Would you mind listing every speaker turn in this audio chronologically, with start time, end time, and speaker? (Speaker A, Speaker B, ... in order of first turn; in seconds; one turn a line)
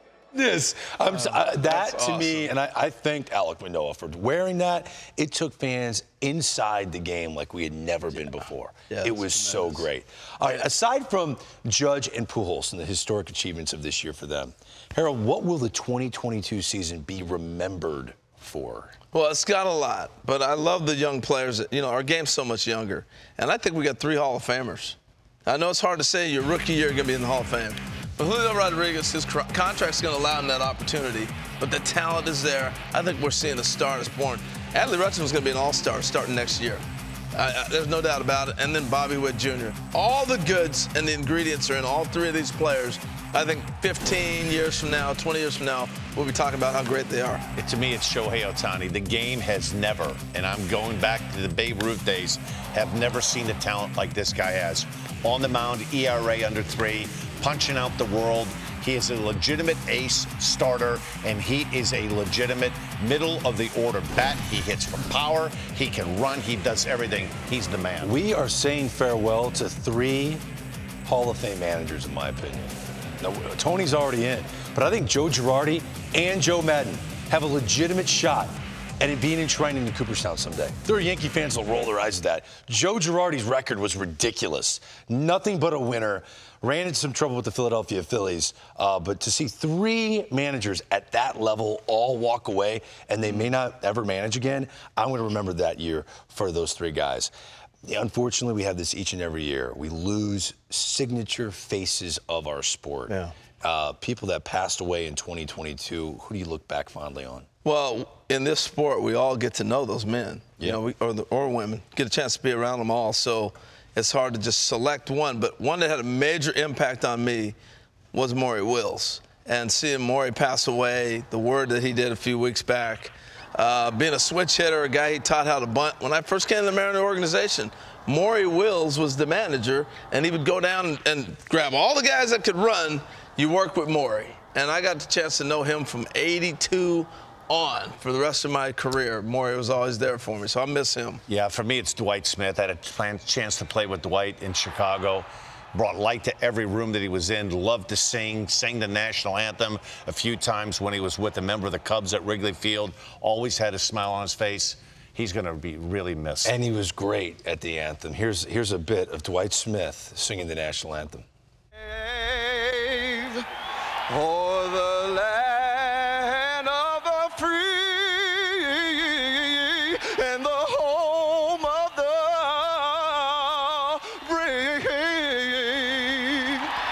Speaker A: 0.3-18.9
Speaker B: 1.1-2.5
Speaker B: 8.9-9.9
Speaker B: 19.1-36.8
Speaker B: 37.3-47.5
Speaker C: 47.5-68.1
Speaker A: 68.0-70.4
Speaker A: 71.0-97.3
Speaker A: 97.8-107.5
Speaker B: 107.6-117.6
Speaker B: 118.1-141.2
Speaker C: 141.3-156.6
Speaker A: 156.4-161.2
Speaker B: 161.8-163.4
Speaker B: 164.1-176.7